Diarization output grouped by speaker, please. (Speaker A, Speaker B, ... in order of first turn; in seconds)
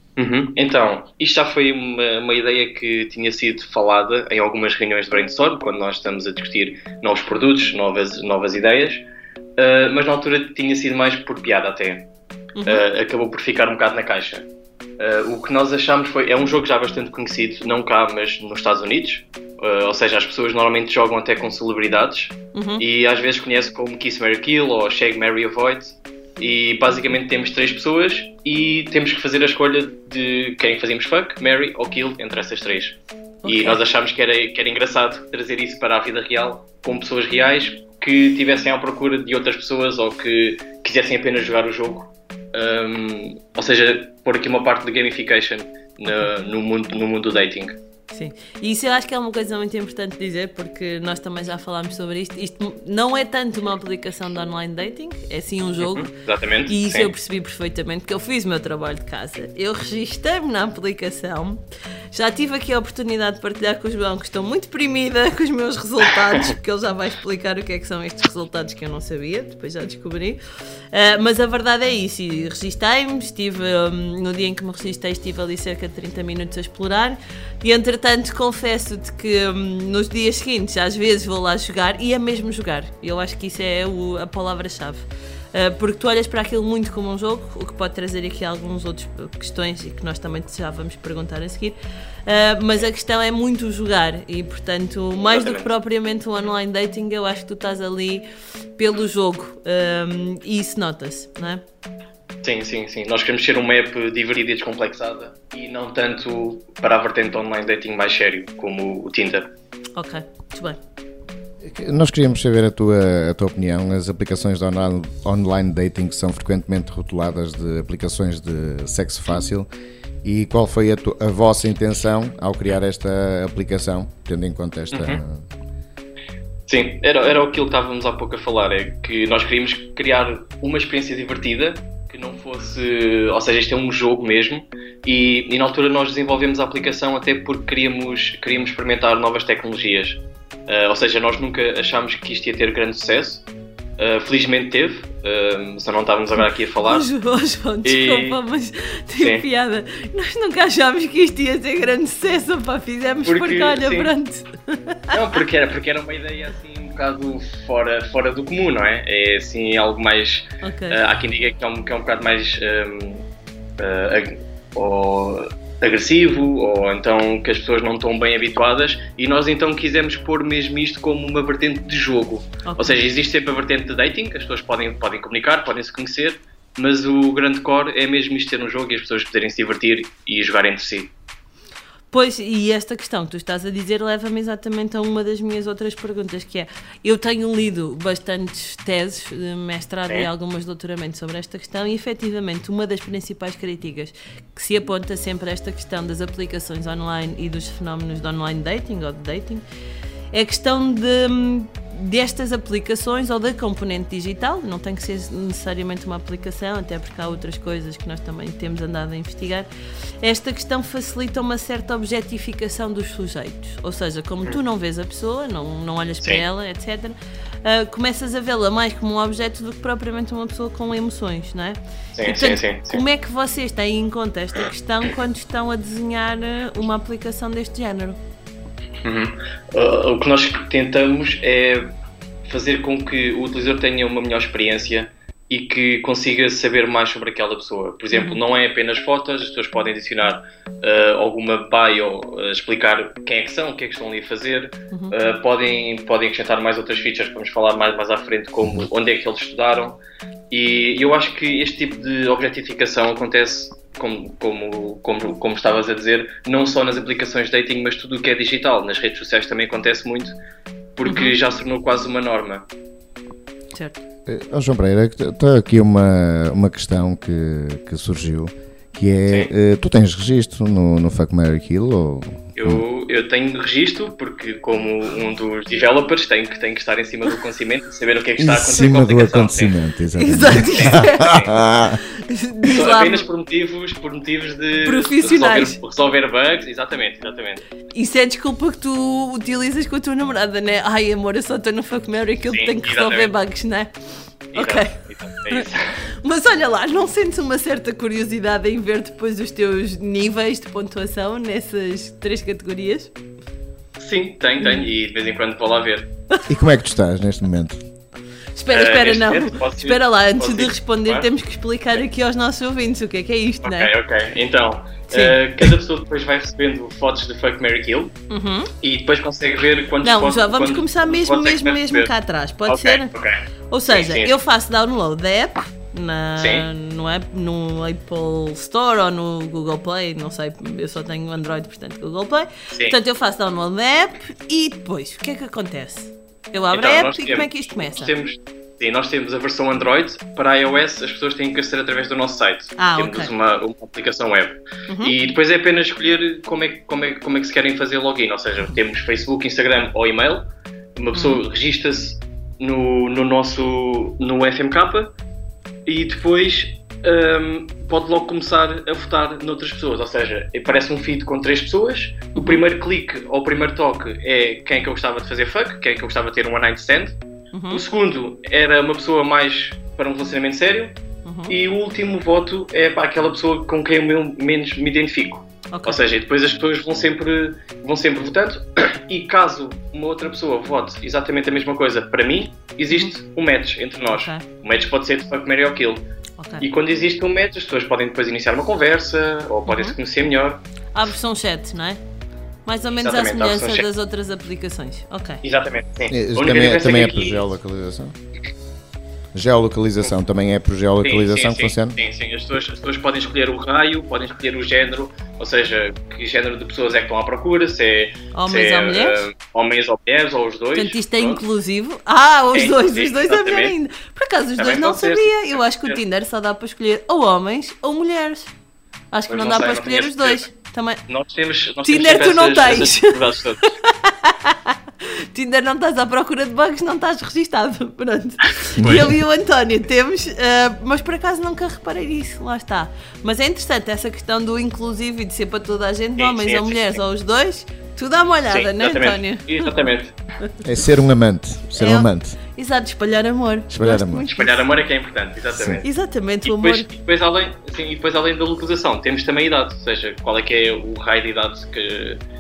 Speaker A: 0.2-9.1, 9.6-12.1, 12.6-14.5, 15.0-47.8, 55.8-57.1, 95.2-95.7, 102.4-109.5, 124.9-125.2, 126.7-143.4, 144.0-147.1, 147.8-148.4, 149.2-149.4, 153.2-154.1, 155.1-163.2, 163.8-181.1, 222.2-223.0, 229.0-231.9, 232.4-250.0, 250.5-260.4, 260.9-262.7, 272.6-279.7, 280.5-281.6, 282.6-287.6, 292.5-293.3, 294.5-295.9, 304.0-306.1, 308.7-311.3, 313.6-318.1, 318.8-322.1, 322.6-324.3, 326.4-326.7, 336.7-355.1, 355.9-367.2, 367.7-370.9, 371.5-386.1, 386.6-390.6, 393.0-393.9, 395.4-397.5, 401.0-411.4, 412.5-413.8, 414.6-416.0, 419.3-420.5, 421.1-423.8, 428.6-429.2, 436.2-437.0, 438.5-440.1, 444.3-445.9, 446.4-452.2
Speaker B: 12.6-12.8, 22.5-22.8, 33.4-33.8, 48.1-56.1, 56.7-61.6, 62.1-70.4, 70.9-101.6, 110.0-110.8, 146.8-154.7, 160.6-161.0, 172.6-173.0, 182.1-199.6, 200.3-209.7, 210.2-228.2, 238.1-238.4, 261.1-261.3, 263.7-264.0, 280.2-281.2, 282.1-283.2, 284.8-285.8, 287.9-293.9, 294.5-294.9, 296.2-303.1, 304.6-304.9, 308.6-313.9, 315.1-315.6, 318.3-318.7, 320.0-323.1, 323.7-338.1, 342.8-343.3, 351.1-351.4, 362.3-362.6, 367.5-367.8, 371.2-371.5, 375.7-376.0, 384.1-384.4, 386.4-386.6, 389.7-389.9, 390.9-392.0, 392.6-395.4, 408.3-409.2, 410.8-418.5, 419.1-421.0, 421.8-423.2, 423.8-439.7, 441.8-444.5, 445.8-446.9
Speaker C: 111.6-119.7, 120.2-125.4, 264.2-272.8, 278.4-282.0, 306.5-307.8, 396.1-398.1, 399.3-402.0, 440.6-442.4, 443.7-444.2, 445.5-445.8